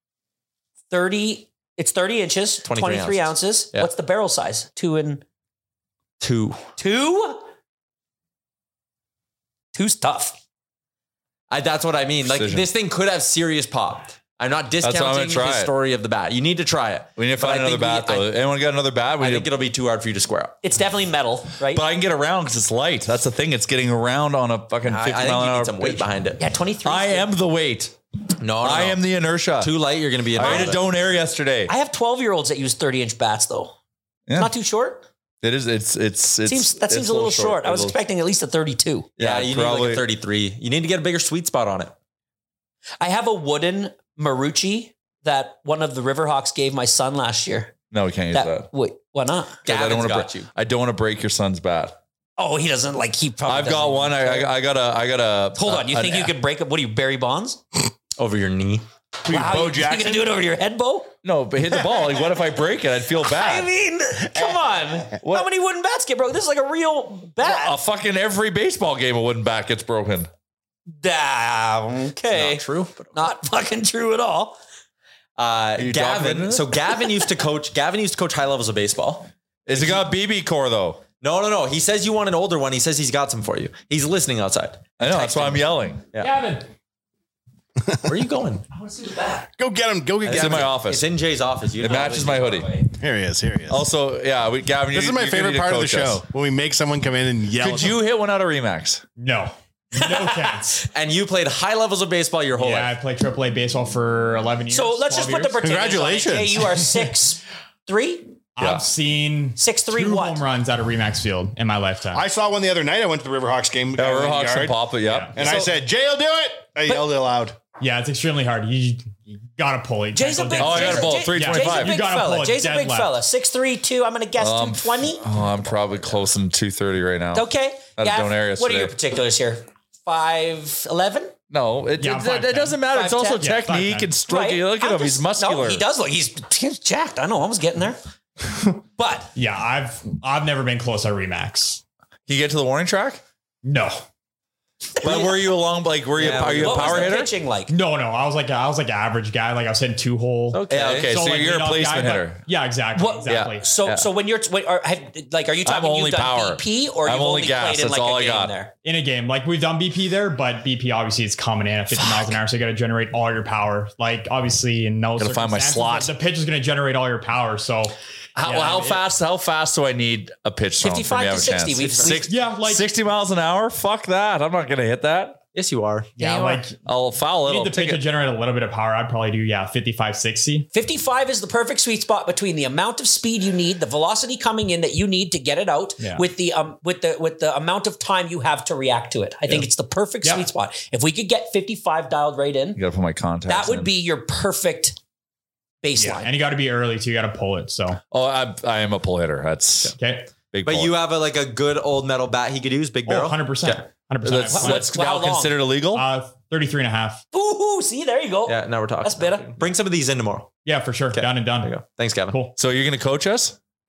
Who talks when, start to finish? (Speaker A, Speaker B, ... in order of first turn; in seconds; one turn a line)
Speaker A: 0.9-5.2
Speaker B: 2.6-3.9
Speaker B: 6.2-6.6
Speaker A: 6.8-7.4
Speaker A: 9.7-10.4
Speaker B: 11.5-18.3
Speaker C: 12.2-12.7
Speaker C: 14.8-15.7
Speaker C: 17.2-19.5
Speaker B: 19.2-20.6
Speaker A: 20.6-21.8
Speaker C: 21.7-26.1
Speaker B: 24.8-26.4
Speaker A: 26.4-27.3
Speaker C: 26.8-27.9
Speaker B: 28.4-29.0
Speaker C: 28.6-29.7
Speaker B: 29.6-30.8
Speaker C: 30.3-31.7
Speaker A: 30.4-30.7
Speaker A: 31.7-33.7
Speaker C: 34.3-34.5
Speaker A: 34.3-35.0
Speaker C: 35.4-38.0
Speaker A: 36.5-39.1
Speaker C: 39.2-40.0
Speaker B: 39.2-41.9
Speaker A: 43.0-47.7
Speaker C: 47.9-48.7
Speaker A: 48.3-49.6
Speaker B: 49.6-50.5
Speaker C: 49.7-52.0
Speaker A: 52.4-54.5
Speaker C: 53.5-56.3
Speaker A: 55.5-57.6
Speaker B: 58.2-58.8
Speaker D: 59.2-60.4
Speaker A: 59.3-61.1
Speaker C: 61.2-63.7
Speaker A: 63.2-67.8
Speaker D: 64.4-64.8
Speaker C: 67.4-70.3
Speaker A: 71.0-72.6
Speaker B: 72.3-73.2
Speaker A: 73.1-74.6
Speaker B: 75.4-80.1
Speaker C: 75.8-76.7
Speaker C: 79.7-81.0
Speaker B: 81.2-86.4
Speaker C: 85.0-86.0
Speaker E: 86.2-86.6
Speaker B: 88.0-88.6
Speaker A: 88.8-89.5
Speaker D: 89.6-90.7
Speaker B: 90.2-92.7
Speaker C: 90.3-91.1
Speaker C: 91.8-92.7
Speaker A: 92.0-92.8
Speaker D: 93.0-93.8
Speaker C: 93.7-96.2
Speaker D: 94.9-98.0
Speaker C: 97.6-99.0
Speaker E: 99.2-100.8
Speaker A: 100.0-100.5
Speaker B: 100.9-102.9
Speaker E: 102.6-105.6
Speaker A: 104.7-108.4
Speaker D: 105.6-106.9
Speaker E: 108.6-112.2
Speaker A: 109.6-110.4
Speaker D: 112.1-117.6
Speaker C: 114.0-115.3
Speaker E: 115.0-115.3
Speaker A: 115.4-115.7
Speaker E: 117.8-123.2
Speaker A: 120.1-125.2
Speaker C: 120.6-122.0
Speaker C: 124.4-128.9
Speaker A: 127.3-131.3
Speaker C: 131.5-135.8
Speaker E: 132.0-132.8
Speaker A: 132.9-133.4
Speaker E: 133.4-134.2
Speaker A: 134.2-138.0
Speaker A: 139.0-139.3
Speaker E: 139.3-141.8
Speaker C: 142.3-143.2
Speaker E: 143.6-144.0
Speaker C: 145.0-147.3
Speaker A: 145.0-145.5
Speaker B: 146.2-147.1
Speaker A: 146.5-147.7
Speaker E: 147.7-153.7
Speaker B: 150.5-151.1
Speaker C: 150.7-152.4
Speaker A: 152.9-158.7
Speaker C: 153.2-154.1
Speaker C: 155.6-158.5
Speaker E: 158.8-169.0
Speaker C: 162.0-162.3
Speaker C: 165.2-166.1
Speaker C: 168.4-175.4
Speaker A: 170.8-172.2
Speaker B: 171.8-172.2
Speaker E: 172.2-172.9
Speaker B: 175.5-176.6
Speaker E: 176.2-176.8
Speaker C: 176.8-178.0
Speaker E: 177.4-180.7
Speaker A: 180.7-192.8
Speaker E: 186.0-186.3
Speaker E: 190.2-190.5
Speaker C: 192.8-193.9
Speaker A: 193.5-195.0
Speaker A: 195.8-196.3
Speaker E: 196.0-198.0
Speaker C: 198.1-199.9
Speaker E: 199.9-200.3
Speaker C: 200.5-200.9
Speaker B: 200.6-203.8
Speaker E: 203.1-204.9
Speaker C: 204.2-206.0
Speaker A: 204.5-205.6
Speaker E: 205.9-207.2
Speaker A: 207.3-209.6
Speaker B: 208.5-210.5
Speaker E: 210.6-211.8
Speaker B: 211.1-212.3
Speaker E: 212.3-212.5
Speaker C: 212.6-213.6